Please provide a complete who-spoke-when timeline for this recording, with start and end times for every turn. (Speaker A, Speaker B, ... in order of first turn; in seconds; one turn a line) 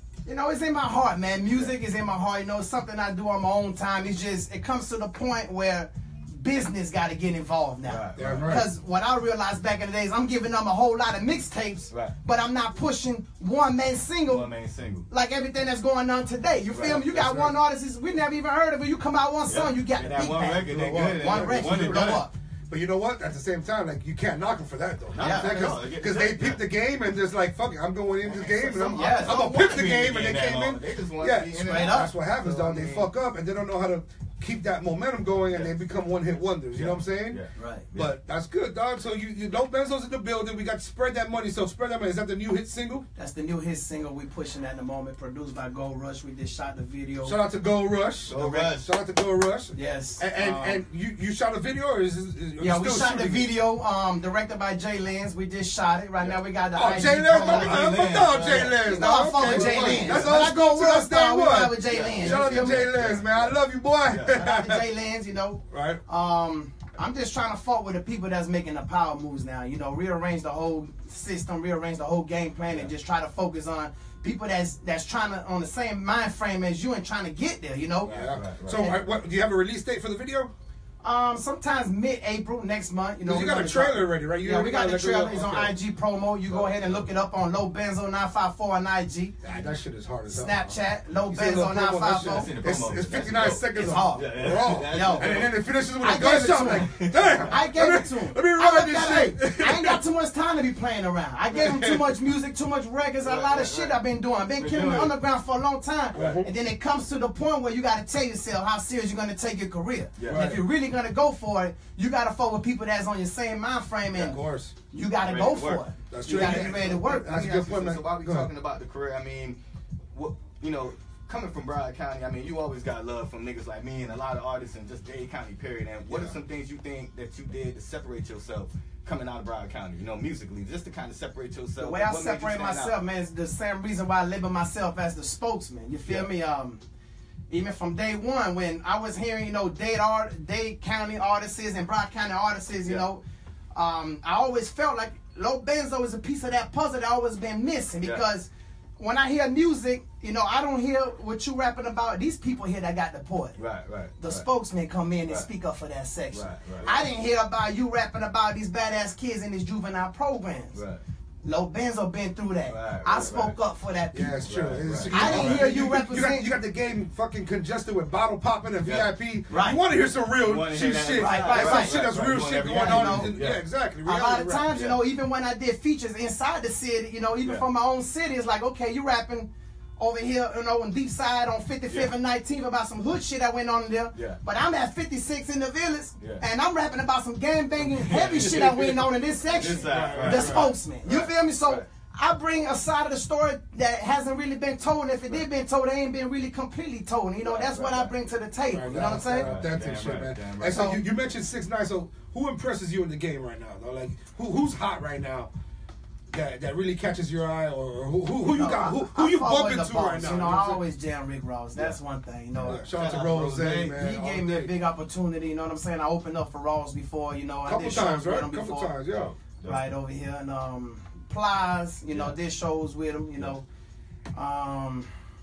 Speaker A: 0.2-14.5
Speaker B: 7.8-8.7
Speaker C: 8.2-8.7
Speaker B: 14.3-15.1
Speaker A: 15.1-22.3
Speaker B: 16.7-17.6
Speaker B: 19.5-22.3
Speaker C: 20.7-37.4
Speaker B: 25.1-26.6
Speaker A: 25.2-25.8
Speaker B: 28.2-33.1
Speaker A: 28.8-29.4
Speaker A: 31.6-32.1
Speaker B: 35.5-35.8
Speaker B: 36.7-38.1
Speaker A: 37.6-37.9
Speaker C: 37.9-43.1
Speaker A: 43.2-47.4
Speaker C: 47.2-53.5
Speaker B: 48.3-48.9
Speaker A: 49.7-50.8
Speaker A: 52.6-57.9
Speaker C: 56.8-64.8
Speaker B: 57.3-60.4
Speaker A: 58.8-62.9
Speaker B: 61.9-64.4
Speaker A: 64.3-78.1
Speaker C: 65.7-66.0
Speaker C: 78.0-80.5
Speaker B: 78.1-79.0
Speaker A: 81.0-89.4
Speaker C: 83.2-85.8
Speaker B: 86.5-87.0
Speaker C: 89.4-90.7
Speaker A: 90.3-92.5
Speaker C: 91.3-100.0
Speaker B: 92.2-95.5
Speaker A: 93.8-114.4
Speaker B: 96.8-97.6
Speaker C: 101.5-102.1
Speaker B: 103.2-104.0
Speaker B: 104.6-105.1
Speaker C: 106.1-106.5
Speaker B: 106.1-106.4
Speaker B: 110.2-110.6
Speaker C: 110.3-110.7
Speaker C: 114.2-114.8
Speaker A: 114.9-117.3
Speaker B: 115.2-119.6
Speaker C: 116.1-118.5
Speaker B: 120.1-132.9
Speaker C: 126.1-126.4
Speaker A: 131.8-136.8
Speaker A: 137.5-148.5
Speaker A: 149.0-153.6
Speaker B: 153.6-154.4
Speaker A: 154.2-160.8
Speaker B: 156.3-156.9
Speaker B: 160.7-161.0
Speaker A: 161.4-164.4
Speaker B: 162.7-163.6
Speaker C: 164.1-174.7
Speaker B: 164.4-165.7
Speaker A: 165.1-166.5
Speaker B: 168.8-169.1
Speaker A: 169.5-169.8
Speaker B: 170.4-173.6
Speaker A: 171.2-172.1
Speaker A: 172.7-173.4
Speaker A: 174.1-199.6
Speaker B: 174.7-175.0
Speaker B: 184.1-184.4
Speaker B: 187.8-191.9
Speaker C: 189.6-190.7
Speaker B: 197.4-198.1
Speaker C: 198.7-205.5
Speaker B: 198.9-201.0
Speaker A: 200.7-201.0
Speaker C: 206.3-210.8
Speaker A: 208.4-212.8
Speaker B: 212.5-214.0
Speaker C: 212.7-214.7
Speaker A: 213.9-218.9
Speaker C: 217.7-219.3
Speaker B: 219.1-219.9
Speaker A: 219.6-223.7
Speaker B: 222.1-222.4
Speaker A: 224.3-225.1